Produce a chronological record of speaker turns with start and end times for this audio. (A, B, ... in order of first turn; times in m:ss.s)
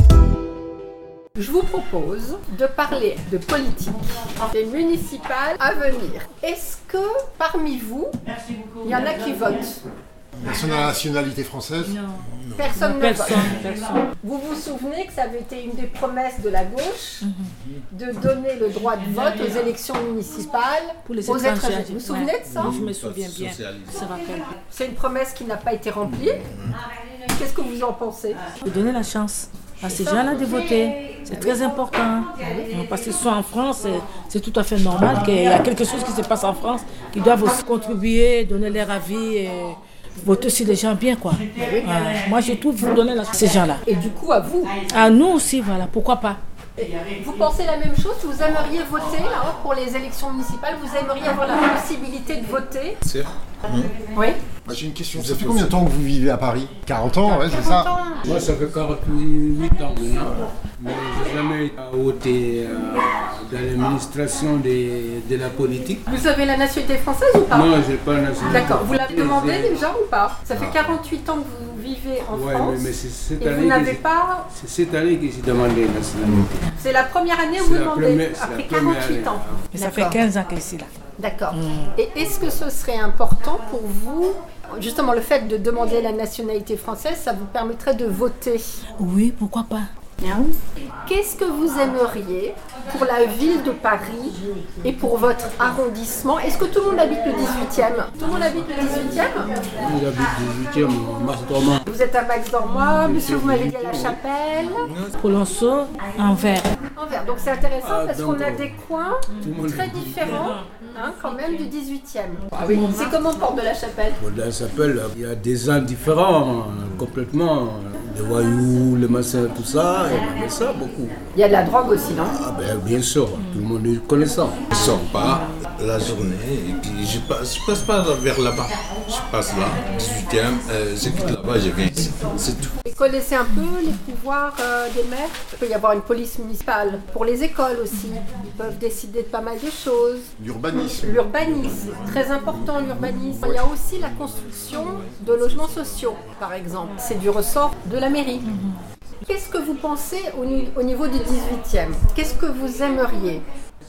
0:01.4-0:08.1 A
0:08.8-0:09.8 A
0:10.4-0:12.0 B
0:11.8-0:12.2 C
0:12.4-0:12.7 D
0:12.6-0:13.5 A
0:12.7-0:14.0 C
0:14.2-0:17.2 A
0:17.2-0:17.5 C
0:17.9-0:22.8 A
0:21.0-0:24.5 C
0:22.4-0:24.0 D
0:24.7-0:26.4 A
0:26.2-0:26.8 D
0:27.3-0:28.4 A
0:28.6-0:43.8 C
0:29.8-0:30.8 A
0:31.3-0:31.6 A
0:43.8-0:44.7 A
0:44.9-0:46.4 C
0:46.8-0:53.0 A
0:53.0-0:53.9 D
0:54.1-0:54.4 A
0:54.6-0:57.9 B
0:55.1-0:55.8 D
0:57.2-0:58.2 A
0:58.2-1:06.1 E
1:06.1-1:07.7 A
1:07.5-1:09.9 E
1:08.5-1:14.5 A
1:10.5-1:10.9 D
1:12.3-1:16.6 E
1:16.8-1:20.2 A
1:17.6-1:19.6 E
1:19.7-1:20.9 C
1:21.2-1:28.6 A
1:21.5-1:21.9 C
1:29.0-1:30.5 C
1:31.0-1:39.5 A
1:39.8-1:41.8 E
1:41.9-1:44.9 A
1:42.9-1:44.2 E
1:44.8-1:45.1 D
1:45.2-1:46.7 C
1:46.9-1:54.2 A
1:47.8-1:48.7 E
1:49.4-1:50.4 E
1:50.2-1:50.7 C
1:54.2-2:01.2 E
2:01.3-2:02.4 A
2:02.3-2:04.7 E
2:03.4-2:03.6 C
2:04.7-2:12.7 D
2:12.8-2:28.5 A
2:20.4-2:21.6 B
2:21.6-2:22.8 D
2:23.4-2:23.6 B
2:24.2-2:26.2 D
2:28.4-2:28.8 C
2:29.3-2:33.4 A